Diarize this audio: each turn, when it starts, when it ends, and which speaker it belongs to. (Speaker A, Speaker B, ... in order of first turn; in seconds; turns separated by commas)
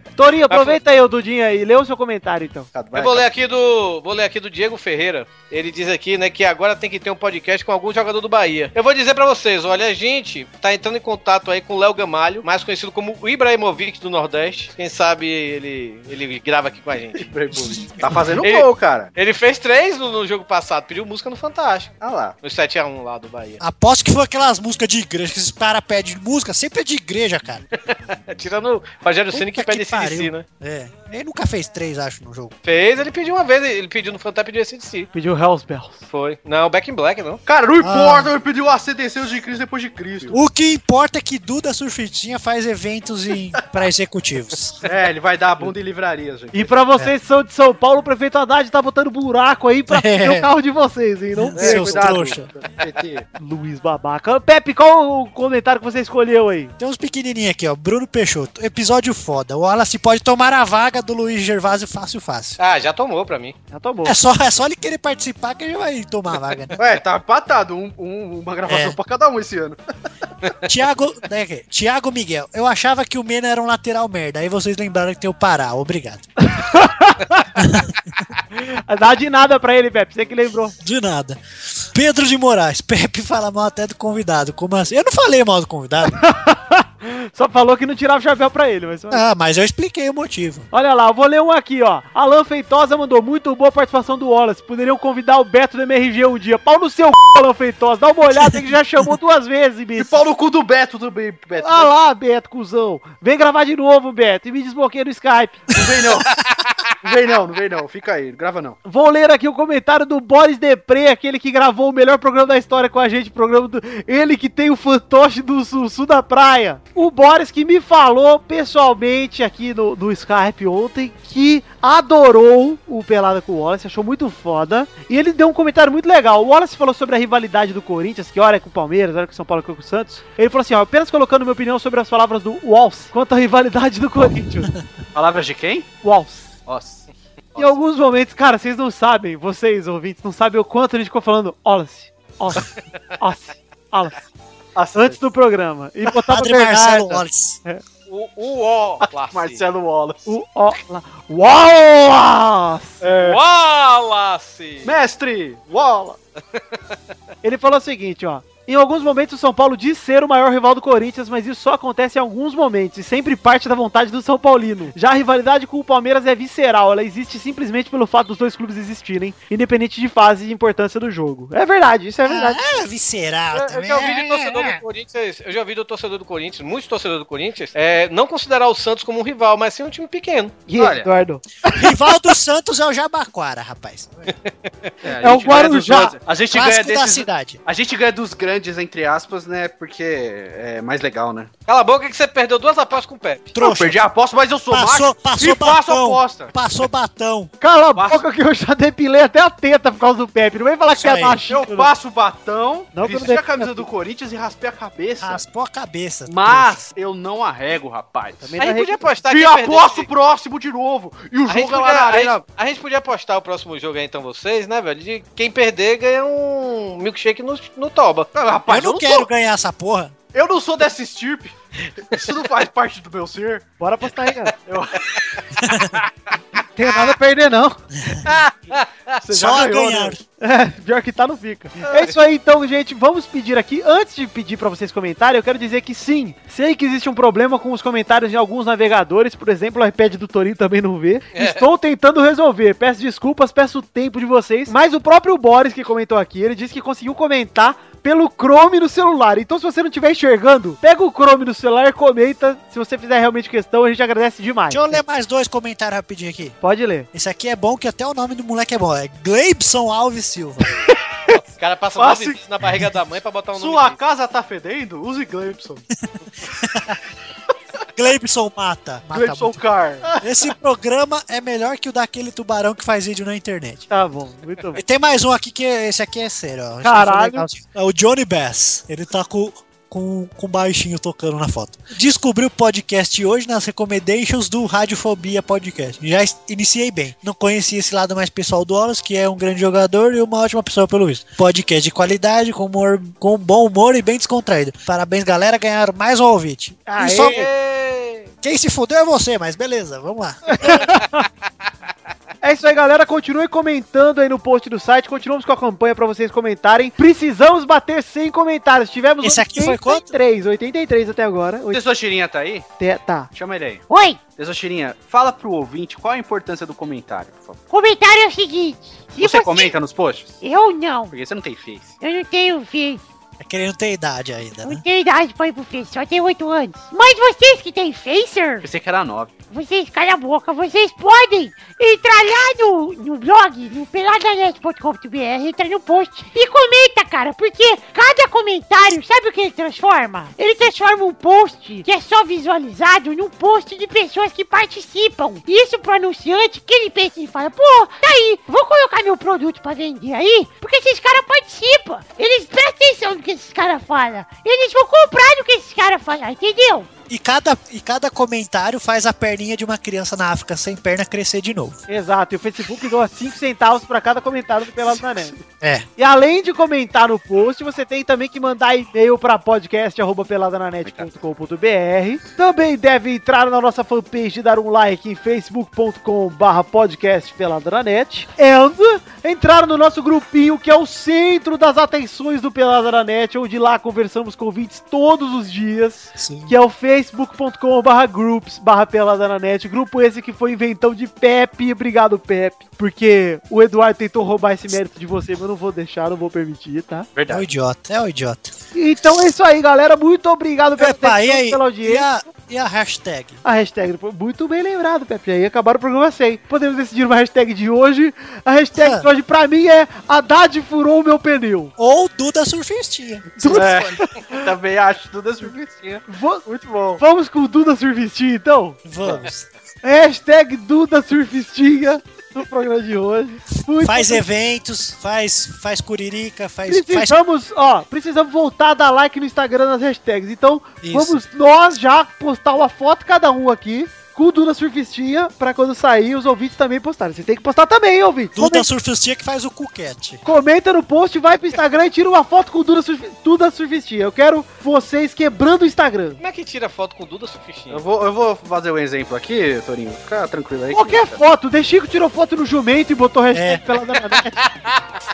Speaker A: 0.2-2.7, Speaker B: 0.5-0.8, Speaker C: 2.7-3.2, Speaker B: 2.9-17.3, Speaker C: 17.1-19.1, Speaker B: 18.4-23.6, Speaker C: 22.0-22.3, Speaker D: 23.6-27.6, Speaker B: 27.8-30.4, Speaker D: 29.3-32.5, Speaker B: 32.6-35.1, Speaker A: 35.1-36.0, Speaker B: 36.1-37.4, Speaker C: 37.5-40.4, Speaker D: 37.8-38.3, Speaker D: 40.3-44.8, Speaker C: 44.8-46.7, Speaker A: 46.5-52.3, Speaker D: 49.9-50.5, Speaker D: 51.4-52.5, Speaker C: 51.5-53.2, Speaker A: 53.4-56.7, Speaker D: 56.8-62.6, Speaker B: 62.6-63.5, Speaker A: 63.7-64.2, Speaker D: 64.0-66.8, Speaker C: 66.8-69.8, Speaker D: 68.7-69.0, Speaker D: 70.7-76.5, Speaker A: 76.4-77.5, Speaker D: 77.5-78.0, Speaker A: 78.5-80.7, Speaker D: 80.8-86.2, Speaker A: 86.1-89.2, Speaker D: 89.1-90.7, Speaker A: 90.7-100.2, Speaker C: 100.0-101.9, Speaker A: 101.6-105.7, Speaker C: 105.7-106.4, Speaker C: 107.0-108.8, Speaker A: 108.8-134.7, Speaker C: 135.1-135.9, Speaker A: 136.0-136.5, Speaker C: 136.7-137.8, Speaker A: 137.6-144.2, Speaker C: 144.8-145.2, Speaker A: 144.9-147.8, Speaker D: 146.3-147.6, Speaker B: 148.1-149.6, Speaker C: 149.0-150.3, Speaker A: 150.2-153.0, Speaker C: 153.0-153.4, Speaker B: 153.2-154.9, Speaker C: 154.8-156.2, Speaker A: 157.4-172.6, Speaker D: 172.2-174.8, Speaker B: 173.5-180.6, Speaker A: 180.7-182.2, Speaker C: 180.8-181.1, Speaker D: 181.7-184.3, Speaker B: 184.4-184.9, Speaker C: 185.0-191.5, Speaker A: 185.2-186.2, Speaker D: 186.5-187.6, Speaker B: 191.7-193.6, Speaker D: 193.6-194.0, Speaker C: 193.6-196.5, Speaker D: 194.7-197.5, Speaker A: 197.6-201.9, Speaker D: 201.0-201.4, Speaker C: 201.5-205.4, Speaker A: 202.9-203.9, Speaker D: 205.2-206.8, Speaker C: 206.3-208.6, Speaker A: 208.4-209.0, Speaker B: 208.6-210.1, Speaker C: 209.2-212.4, Speaker B: 211.5-218.3, Speaker C: 218.3-219.3, Speaker D: 218.7-220.2, Speaker C: 220.3-223.7, Speaker A: 223.8-224.5, Speaker C: 224.7-225.3, Speaker D: 225.6-225.9, Speaker A: 226.8-227.8, Speaker B: 228.3-229.2, Speaker C: 229.2-230.2, Speaker D: 229.3-230.2, Speaker A: 230.4-255.0, Speaker B: 241.3-241.6, Speaker D: 254.7-256.6, Speaker A: 256.6-257.1, Speaker D: 257.1-260.7, Speaker B: 261.3-264.0, Speaker C: 262.0-262.4, Speaker C: 263.6-265.9, Speaker D: 266.6-267.0, Speaker D: 267.9-269.6, Speaker C: 269.1-270.2, Speaker D: 270.2-273.9, Speaker A: 273.9-274.8, Speaker D: 274.7-297.5, Speaker A: 276.8-277.5, Speaker A: 296.9-297.5, Speaker B: 297.1-298.3, Speaker D: 298.4-300.9, Speaker A: 300.6-301.2, Speaker A: 302.4-311.8, Speaker D: 309.2-310.1, Speaker C: 311.7-312.7, Speaker A: 312.8-313.3, Speaker C: 313.3-317.6, Speaker E: 313.9-314.3, Speaker E: 317.7-319.8, Speaker C: 319.2-320.4, Speaker E: 320.4-321.1, Speaker C: 321.1-321.9, Speaker E: 322.0-323.0, Speaker D: 323.4-324.8, Speaker E: 324.6-328.7, Speaker C: 328.6-329.3, Speaker E: 329.5-356.9, Speaker D: 357.1-361.8, Speaker A: 361.9-365.4, Speaker D: 365.6-365.9, Speaker A: 366.0-397.1, Speaker D: 386.1-386.5, Speaker C: 397.1-397.5, Speaker D: 397.3-398.5, Speaker A: 398.7-402.1, Speaker D: 400.8-403.4, Speaker A: 403.4-411.7, Speaker D: 408.7-409.1, Speaker D: 411.8-414.0, Speaker A: 413.4-414.5, Speaker C: 413.5-417.0, Speaker A: 416.1-416.5, Speaker A: 417.0-418.8, Speaker D: 418.8-419.5, Speaker C: 419.0-419.3, Speaker A: 419.8-424.2, Speaker D: 423.8-427.1, Speaker A: 426.7-438.7, Speaker D: 430.8-431.2, Speaker D: 438.3-440.2, Speaker A: 440.2-446.2, Speaker B: 446.2-447.8, Speaker C: 447.7-451.2, Speaker A: 450.7-454.4, Speaker D: 453.3-453.6